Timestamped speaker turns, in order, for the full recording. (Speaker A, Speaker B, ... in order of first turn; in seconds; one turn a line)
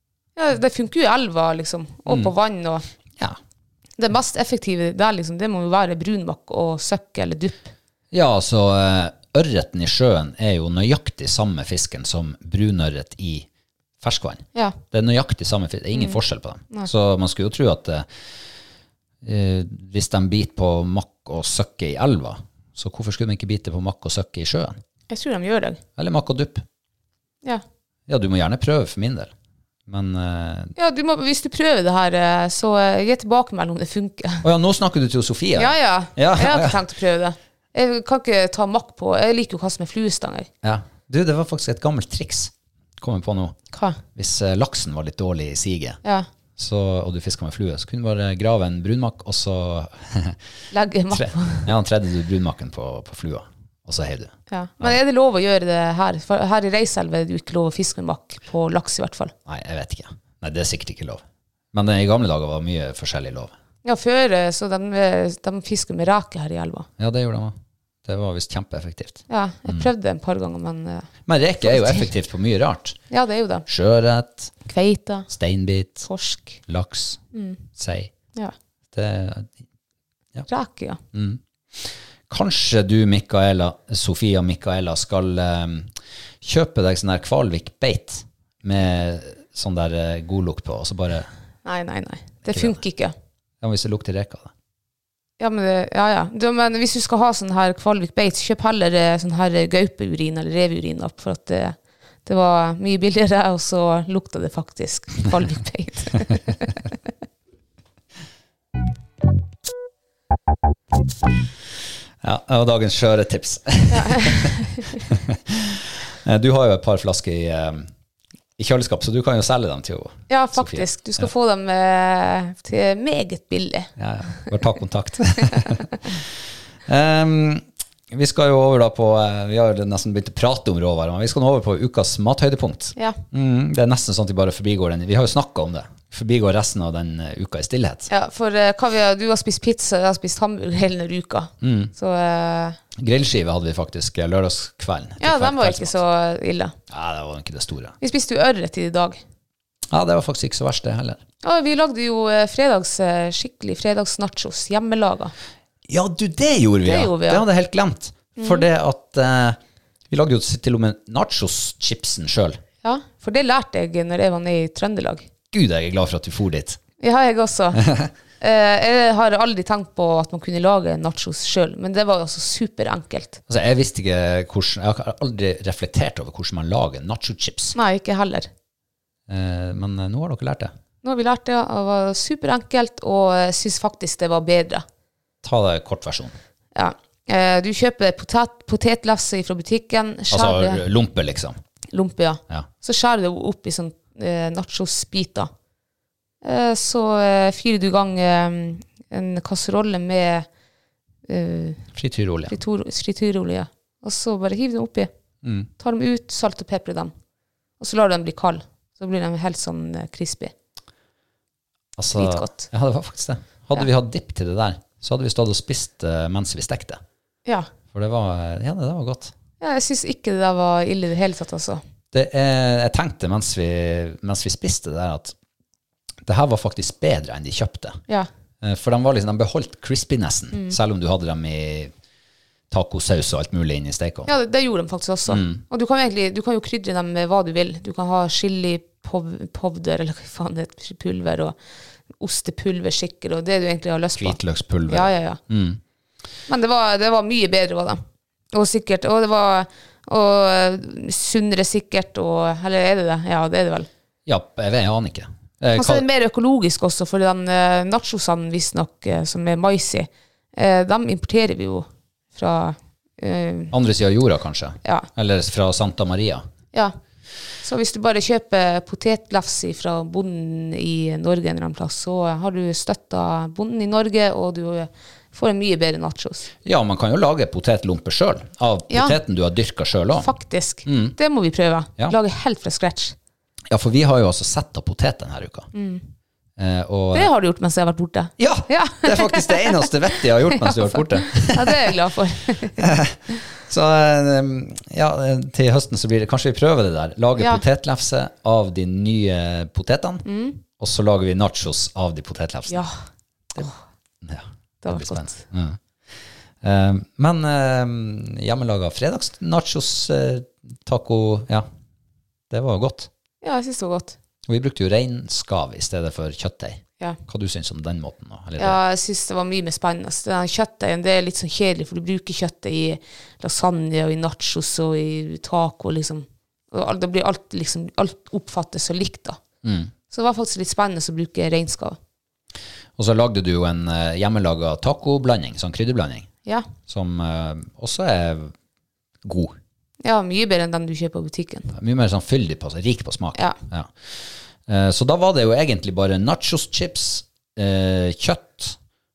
Speaker A: 0.4-2.8
Speaker B: 2.1-2.3
Speaker A: 4.0-7.7
Speaker B: 8.1-13.5
Speaker B: 14.0-18.1
Speaker B: 19.2-24.8
Speaker A: 25.1-25.8
Speaker B: 26.0-26.6
Speaker B: 28.1-29.3
Speaker B: 29.9-30.7
Speaker A: 30.8-34.4
Speaker B: 34.4-36.8
Speaker A: 35.6-40.5
Speaker B: 40.6-43.6
Speaker A: 43.7-44.0
Speaker B: 44.1-46.0
Speaker B: 46.6-50.4
Speaker A: 50.7-51.7
Speaker B: 51.1-55.0
Speaker A: 54.5-59.3
Speaker B: 59.5-63.5
Speaker A: 63.8-66.9
Speaker B: 67.0-69.9
Speaker A: 69.3-71.1
Speaker B: 71.3-73.0
Speaker A: 71.6-72.1
Speaker A: 73.1-73.6
Speaker B: 73.7-74.5
Speaker A: 74.6-75.3
Speaker B: 75.3-76.1
Speaker A: 76.0-76.6
Speaker B: 76.6-77.2
Speaker A: 77.3-77.6
Speaker B: 77.8-78.1
Speaker B: 78.9-79.5
Speaker A: 80.5-81.0
Speaker B: 81.1-91.3
Speaker A: 91.6-93.1
Speaker B: 92.5-92.8
Speaker B: 93.6-94.5
Speaker A: 95.4-106.8
Speaker B: 112.2-117.9
Speaker A: 113.9-115.0
Speaker B: 118.6-121.3
Speaker A: 120.3-123.9
Speaker B: 124.0-126.2
Speaker B: 126.8-138.1
Speaker A: 138.1-142.8
Speaker B: 141.6-141.9
Speaker B: 142.9-146.0
Speaker A: 145.2-146.7
Speaker B: 146.9-148.0
Speaker A: 148.0-149.2
Speaker B: 149.9-151.2
Speaker A: 151.4-155.3
Speaker B: 155.9-159.6
Speaker A: 156.8-157.4
Speaker A: 158.4-158.7
Speaker B: 160.1-162.6
Speaker A: 162.8-165.3
Speaker B: 165.5-166.8
Speaker A: 167.0-167.8
Speaker B: 167.7-168.1
Speaker A: 168.4-173.4
Speaker B: 173.5-177.8
Speaker A: 177.8-178.5
Speaker B: 179.3-180.7
Speaker A: 181.0-184.8
Speaker B: 185.4-186.3
Speaker A: 186.7-190.8
Speaker B: 190.3-191.6
Speaker A: 191.9-195.5
Speaker A: 196.4-200.5
Speaker A: 201.3-201.8
Speaker B: 201.9-202.6
Speaker A: 202.5-205.1
Speaker B: 205.4-205.7
Speaker A: 205.8-207.1
Speaker A: 207.8-210.5
Speaker B: 212.0-217.0
Speaker A: 212.1-212.7
Speaker B: 217.9-219.3
Speaker A: 219.6-221.8
Speaker B: 222.1-225.3
Speaker B: 226.2-228.0
Speaker B: 228.6-231.9
Speaker A: 230.5-230.8
Speaker B: 232.7-234.3
Speaker A: 234.2-241.6
Speaker B: 235.3-235.6
Speaker A: 242.2-245.4
Speaker B: 244.2-245.8
Speaker A: 246.5-248.0
Speaker A: 248.5-253.9
Speaker B: 254.2-256.1
Speaker A: 255.8-263.7
Speaker B: 263.7-266.4
Speaker A: 267.6-276.5
Speaker B: 276.6-280.3
Speaker A: 278.9-279.2
Speaker A: 280.2-283.1
Speaker B: 280.8-281.2
Speaker B: 283.7-285.7
Speaker A: 285.7-286.0
Speaker B: 286.6-287.3
Speaker A: 287.1-292.9
Speaker B: 288.4-292.0
Speaker B: 292.8-302.9
Speaker A: 297.4-297.6
Speaker A: 300.2-300.6
Speaker A: 302.7-303.0
Speaker B: 304.2-305.8
Speaker A: 304.8-305.4
Speaker B: 306.6-311.7
Speaker B: 312.5-313.1
Speaker A: 313.4-314.2
Speaker B: 314.5-318.8
Speaker A: 318.6-329.4
Speaker B: 329.6-329.9
Speaker A: 330.1-332.0
Speaker B: 333.0-336.3
Speaker B: 336.9-338.5
Speaker B: 339.2-339.6
Speaker A: 340.0-341.7
Speaker B: 341.7-348.8